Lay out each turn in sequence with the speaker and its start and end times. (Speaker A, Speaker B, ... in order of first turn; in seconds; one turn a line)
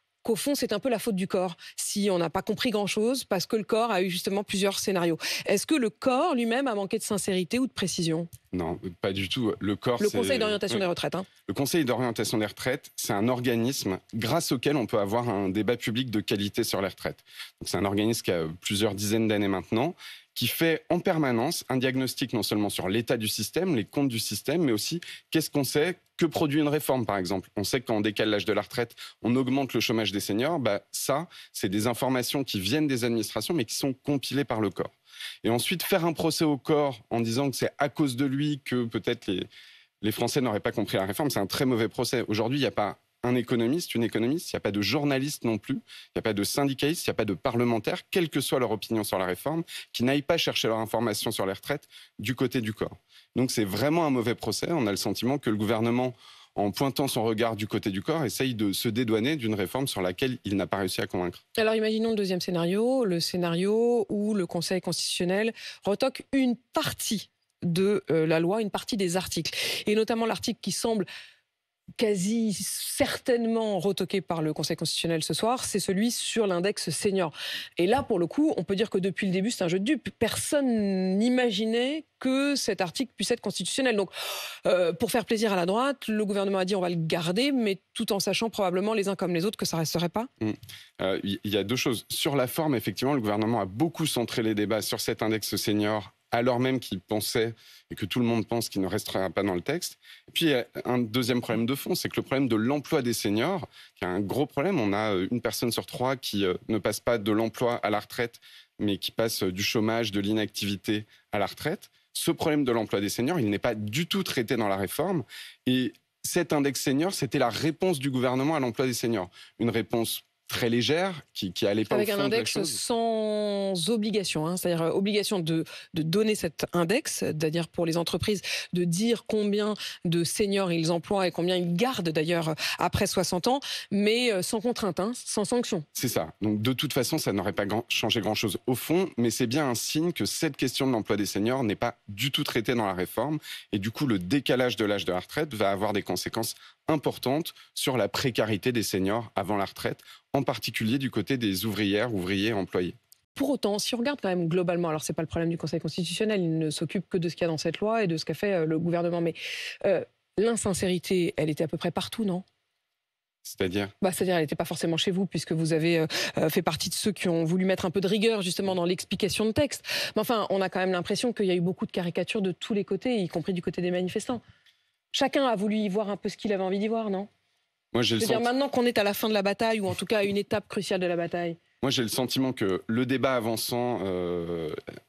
Speaker A: 0.2-8.3
Speaker B: 8.5-10.8
Speaker A: 10.0-11.3
Speaker B: 11.5-39.5
Speaker B: 40.0-61.4
Speaker A: 61.6-71.1
Speaker A: 72.0-84.1
Speaker A: 84.6-90.3
Speaker B: 90.4-122.8
Speaker A: 121.9-135.8
Speaker B: 135.9-152.9
Speaker A: 153.3-162.4
Speaker B: 163.4-163.9
Speaker A: 164.0-174.4
Speaker A: 175.1-177.3
Speaker B: 177.9-178.5
Speaker A: 178.2-181.6
Speaker B: 181.8-184.8